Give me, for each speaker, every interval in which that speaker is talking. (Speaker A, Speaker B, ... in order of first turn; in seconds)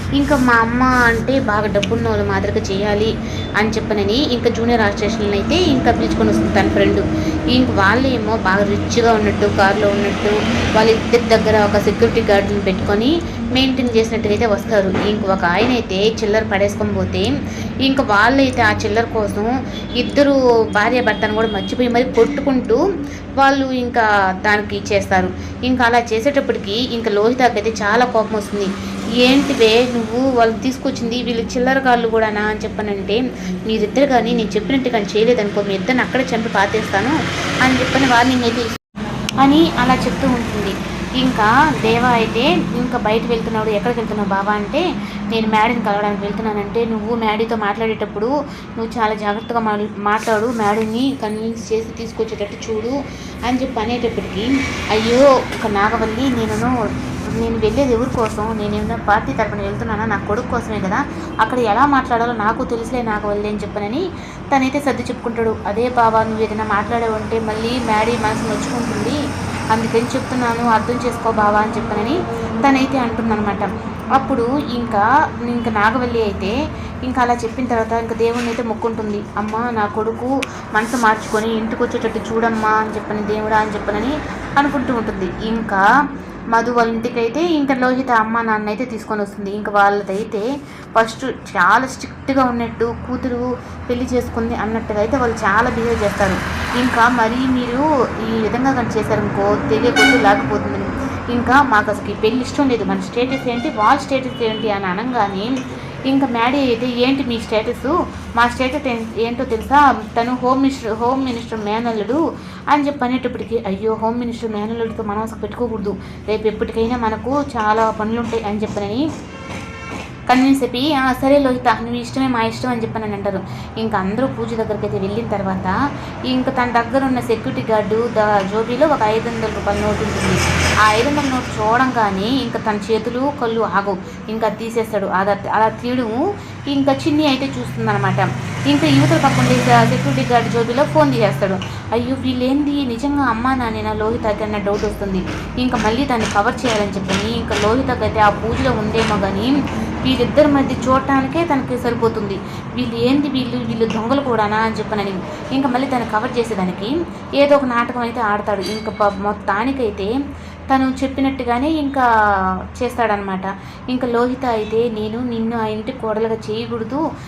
Speaker A: 0.2-17.3, 17.9-22.8, 23.4-28.7, 29.2-38.8, 39.4-53.0, 53.5-56.7, 57.4-69.2, 69.7-76.5, 77.1-85.8, 86.5-90.4, 91.0-105.5, 106.1-112.2, 112.7-119.0, 120.3-125.7, 126.3-136.2, 136.7-160.1, 160.7-162.0, 162.8-167.0